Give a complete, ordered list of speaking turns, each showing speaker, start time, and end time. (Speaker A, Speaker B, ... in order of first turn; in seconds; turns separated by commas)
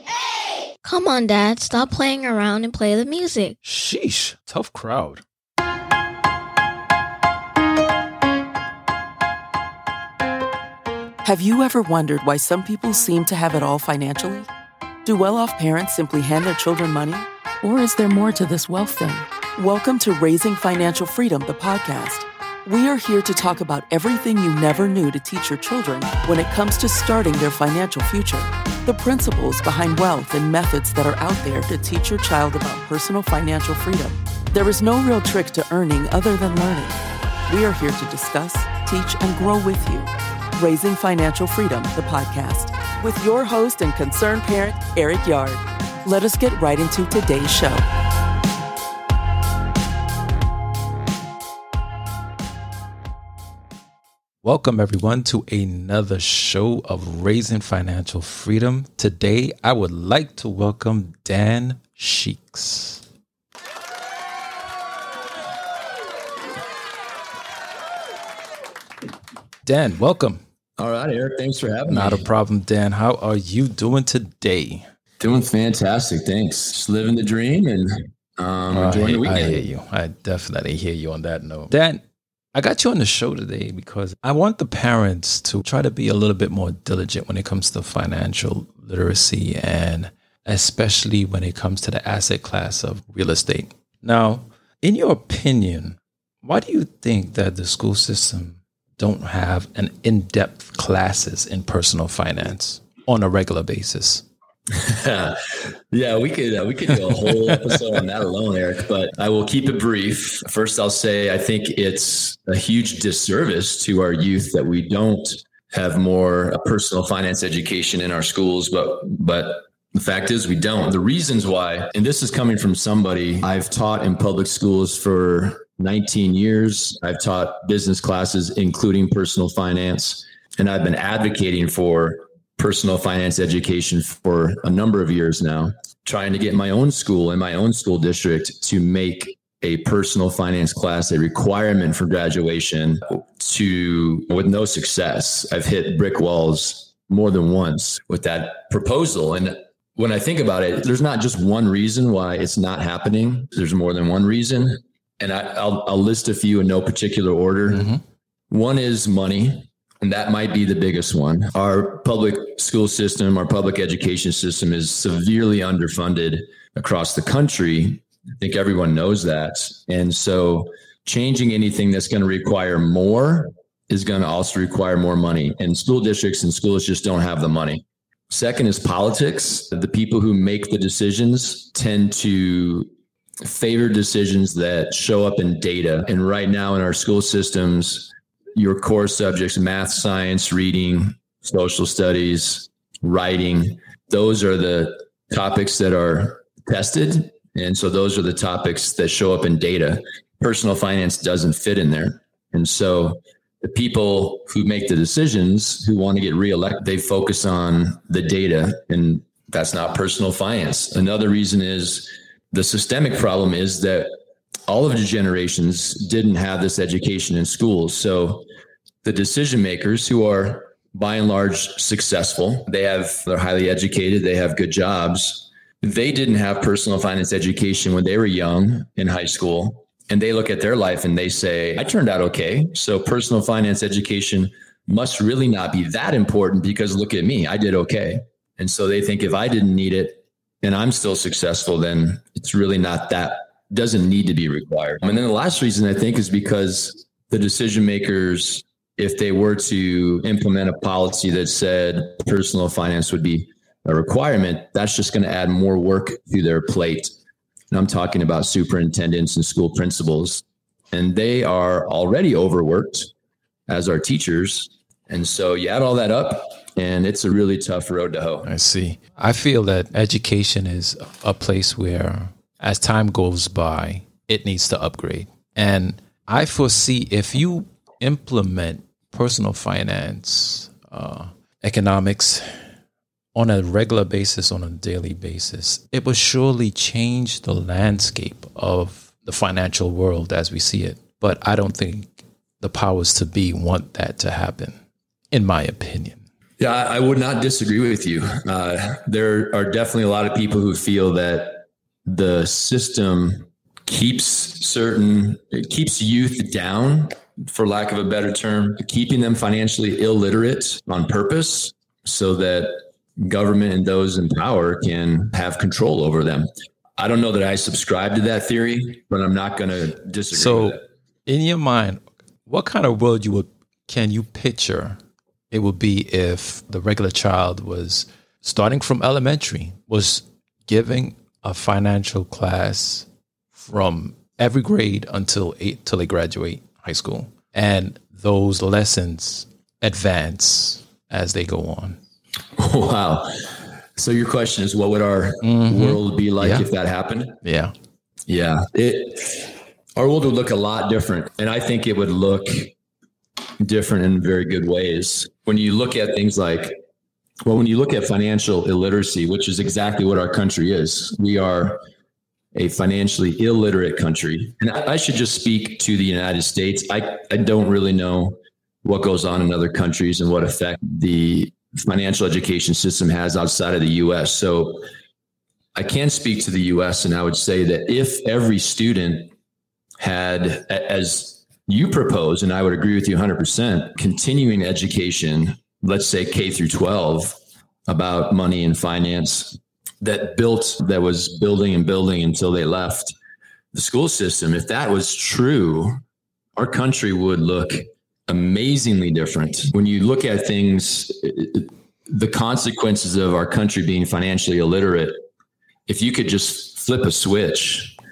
Speaker A: 0.8-3.6, Speaker B: 3.6-5.2, Speaker C: 11.2-14.5, Speaker C: 15.0-47.8, Speaker B: 54.4-63.0, Speaker B: 69.6-70.4, Speaker D: 70.8-72.2, Speaker B: 71.9-74.8, Speaker D: 75.2-79.7, Speaker B: 78.7-82.0, Speaker B: 82.5-104.2, Speaker D: 104.7-157.9, Speaker B: 157.7-158.0, Speaker D: 158.5-182.9, Speaker D: 183.4-214.1, Speaker D: 214.7-218.4, Speaker D: 219.0-257.1, Speaker D: 257.7-263.1, Speaker D: 263.7-268.5, Speaker B: 268.4-282.6, Speaker B: 283.3-294.8, Speaker B: 295.3-296.2, Speaker D: 296.6-320.8, Speaker B: 320.3-325.0, Speaker B: 325.5-342.0, Speaker D: 342.6-347.4, Speaker B: 345.4-346.7, Speaker B: 347.4-347.7, Speaker D: 348.3-352.7, Speaker D: 353.6-356.8, Speaker D: 357.4-361.8, Speaker D: 362.5-374.8, Speaker D: 375.7-379.3, Speaker D: 380.0-393.1, Speaker D: 393.7-396.0, Speaker D: 396.6-405.2, Speaker D: 405.9-407.9